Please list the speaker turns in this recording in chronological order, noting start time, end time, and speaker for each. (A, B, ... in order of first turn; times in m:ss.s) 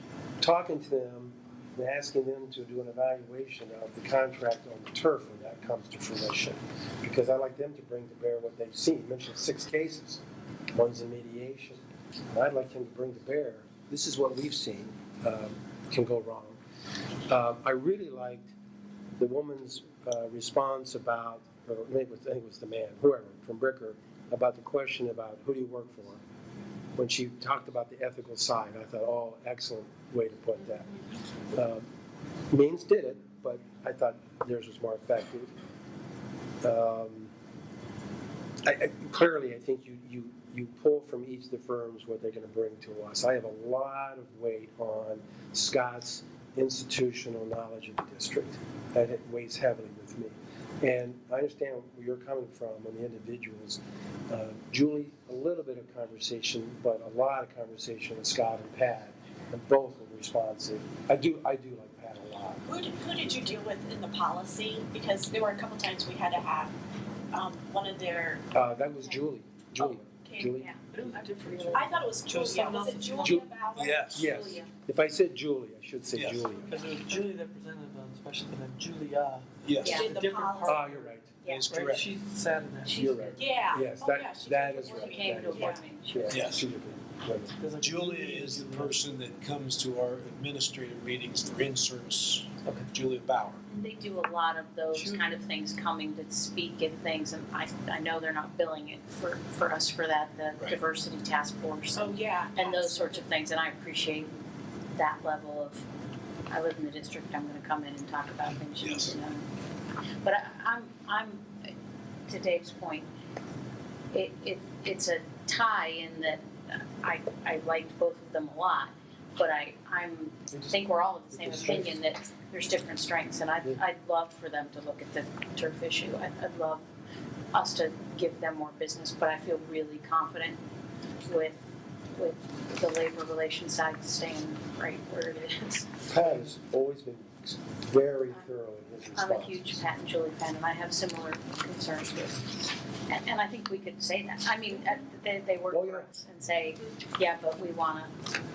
0:00.4-0:10.2 A
0:10.7-0:11.8 A
0:12.3-0:16.6 A
0:17.3-0:18.5 A
0:19.2-0:26.2 A
0:27.0-0:30.9 A
0:31.5-0:31.9 A
0:32.5-0:35.5 A
0:36.6-0:37.3 A
0:38.6-1:02.6 A
1:02.6-1:06.7 B
1:07.3-1:08.5 B
1:08.5-1:11.6 A
1:09.8-1:10.8 B
1:10.9-1:13.4 C
1:11.7-1:14.2 B
1:13.2-1:13.4 A
1:13.7-1:14.2 D
1:14.1-1:16.7 A
1:14.2-1:14.7 E
1:16.1-1:16.5 D
1:16.7-1:23.3 C
1:19.6-1:20.0 D
1:19.8-1:20.8 B
1:19.8-1:20.1 E
1:20.6-1:21.3 A
1:21.4-1:21.8 E
1:21.4-1:22.1 D
1:22.9-1:27.5 A
1:23.3-1:25.8 B
1:24.9-1:26.5 E
1:26.3-1:26.6 D
1:27.6-1:28.9 C
1:27.8-1:33.6 D
1:33.7-1:44.3 E
1:34.9-1:35.3 C
1:41.9-1:43.2 B
1:45.0-1:45.8 E
1:46.5-1:49.4 E
1:48.8-1:49.1 D
1:50.2-1:51.5 E
1:52.3-1:53.1 E
1:54.1-2:06.8 E
2:00.5-2:01.9 A
2:07.5-2:10.6 E
2:11.3-2:11.6 E
2:12.2-2:15.9 E
2:16.1-2:19.8 A
2:19.1-2:22.6 E
2:23.1-2:28.1 E
2:25.7-2:26.1 A